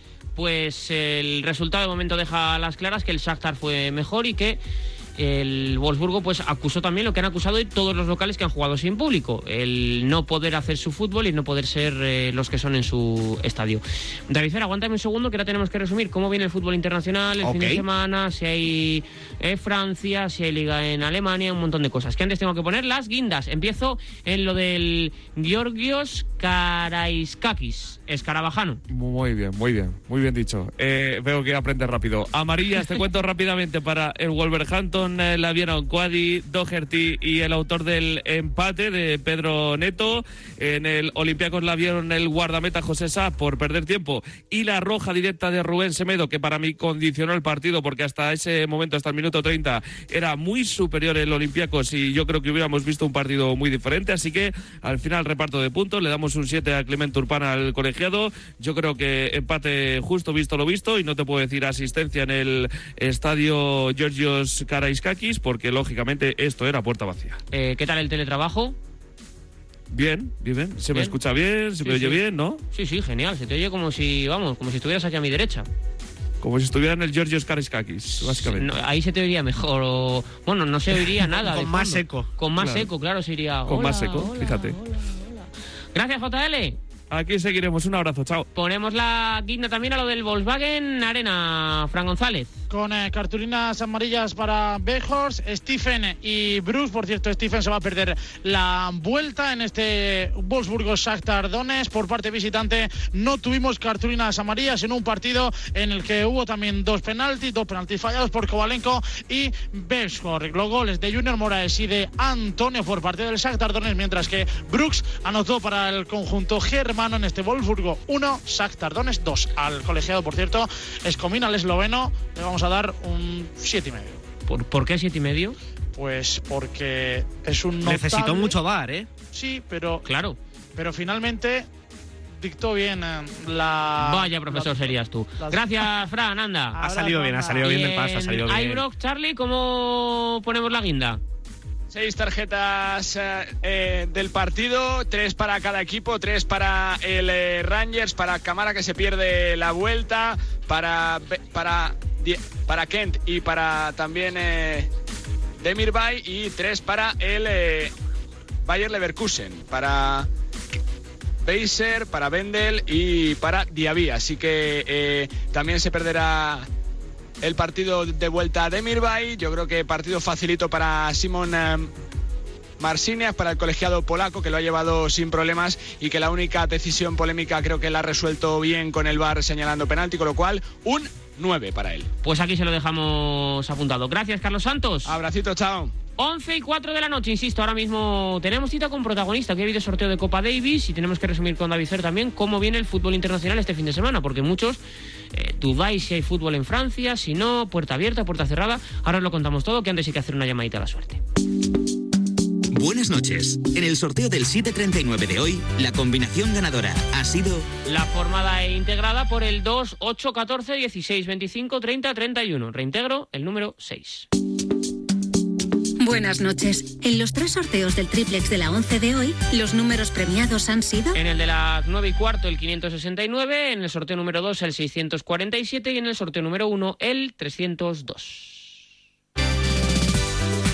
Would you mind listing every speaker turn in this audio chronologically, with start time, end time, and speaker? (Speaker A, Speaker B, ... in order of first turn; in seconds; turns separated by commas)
Speaker A: 0.3-4.6, Speaker A: 5.2-28.8, Speaker B: 17.4-17.8, Speaker C: 28.9-67.4, Speaker A: 67.5-68.8, Speaker C: 69.9-72.6, Speaker A: 71.8-72.2, Speaker A: 72.7-75.7, Speaker C: 76.4-78.7, Speaker A: 78.2-86.8, Speaker B: 81.3-82.3, Speaker C: 82.6-82.9, Speaker C: 83.7-84.8, Speaker C: 87.1-88.5, Speaker A: 88.5-92.5, Speaker D: 92.7-124.2, Speaker A: 124.5-125.6, Speaker D: 125.9-128.6, Speaker B: 127.8-129.1, Speaker D: 129.3-130.0, Speaker A: 130.0-130.4, Speaker D: 130.8-131.7, Speaker D: 132.4-135.9, Speaker A: 134.0-136.8, Speaker D: 136.7-137.6, Speaker B: 136.8-138.8, Speaker A: 137.6-141.2, Speaker E: 141.9-154.9, Speaker E: 155.6-157.9, Speaker E: 158.6-160.3, Speaker E: 161.4-166.7, Speaker E: 167.4-171.9, Speaker E: 172.8-182.1, Speaker A: 182.2-185.1, Speaker E: 185.0-185.9, Speaker A: 186.2-194.8, Speaker A: 195.3-201.2, Speaker F: 202.7-207.7, Speaker A: 207.9-214.3, Speaker G: 216.0-221.2, Speaker A: 221.1-228.8